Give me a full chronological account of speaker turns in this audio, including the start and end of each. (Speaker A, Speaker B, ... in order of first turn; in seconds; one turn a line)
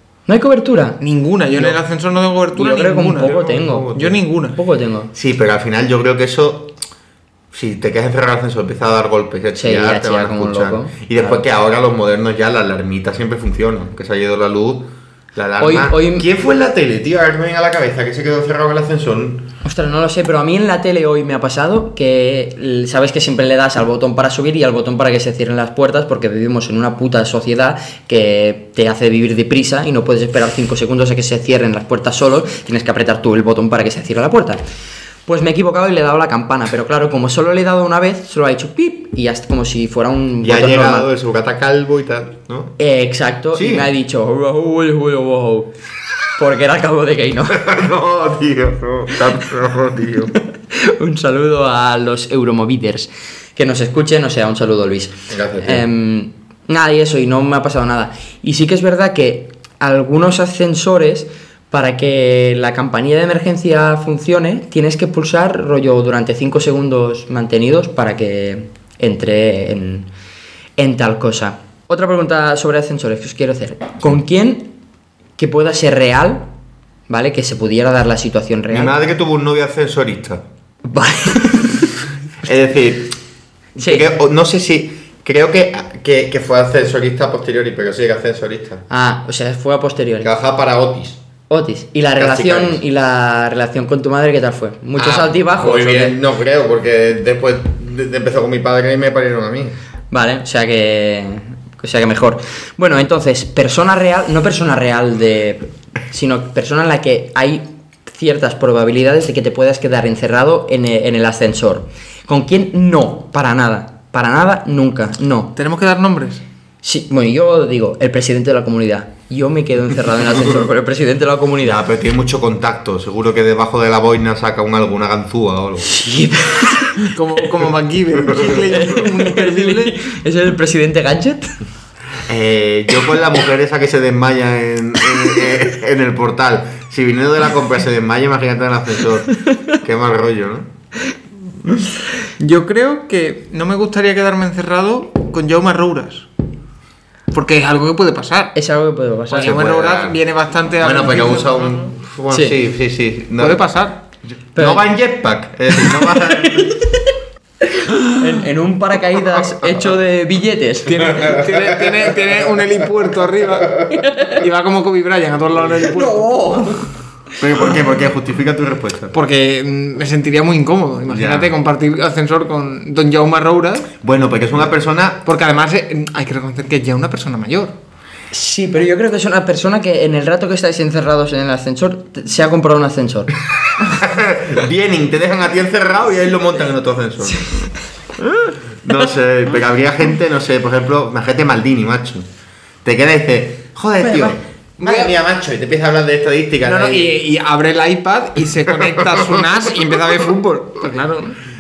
Speaker A: 0.3-1.0
Speaker B: 1.0-3.4
Speaker A: 2.5-4.0
Speaker C: 3.1-4.2
Speaker B: 3.9-4.6
Speaker A: 4.5-5.1
Speaker C: 5.1-6.7
Speaker C: 7.5-19.5
Speaker A: 9.6-11.4
Speaker A: 15.6-16.3
Speaker A: 19.6-34.6
Speaker A: 35.3-41.1
Speaker C: 40.4-42.8
Speaker A: 42.8-45.7
Speaker C: 43.5-43.9
Speaker A: 46.4-47.7
Speaker C: 47.5-50.4
Speaker A: 50.3-70.1
Speaker C: 55.3-55.8
Speaker A: 70.8-74.7
Speaker A: 75.4-76.5
Speaker A: 77.1-78.9
Speaker C: 78.7-80.4
Speaker A: 80.8-82.0
Speaker C: 82.4-83.2
Speaker A: 83.8-84.1
Speaker C: 83.8-88.8
Speaker A: 88.9-90.3
Speaker C: 90.2-91.2
Speaker A: 91.5-96.2
Speaker C: 92.2-92.8
Speaker C: 95.0-99.8
Speaker A: 100.1-115.5
Speaker B: 115.6-116.4
Speaker A: 116.8-121.8
Speaker C: 121.6-125.9
Speaker A: 125.8-127.1
Speaker B: 127.0-130.0
Speaker A: 128.3-131.6
Speaker C: 132.3-140.7
Speaker B: 142.4-146.3
Speaker B: 147.3-148.5
Speaker A: 148.6-149.6
Speaker B: 149.3-151.9
Speaker C: 149.4-150.2
Speaker C: 150.8-153.6
Speaker A: 152.3-152.6
Speaker B: 153.4-154.0
Speaker A: 154.6-154.8
Speaker C: 154.6-156.8
Speaker A: 156.1-157.1
Speaker A: 157.8-161.2
Speaker B: 160.9-166.2
Speaker A: 163.9-164.3
Speaker A: 165.9-166.9
Speaker C: 167.4-169.2
Speaker B: 169.1-173.9
Speaker C: 171.1-171.5
Speaker C: 174.0-175.2
Speaker B: 175.3-177.8
Speaker A: 178.3-183.3
Speaker C: 183.8-187.5
Speaker A: 187.4-187.7
Speaker C: 188.8-192.3
Speaker C: 192.8-197.1
Speaker A: 194.0-194.4
Speaker B: 194.8-195.1
Speaker B: 196.6-201.4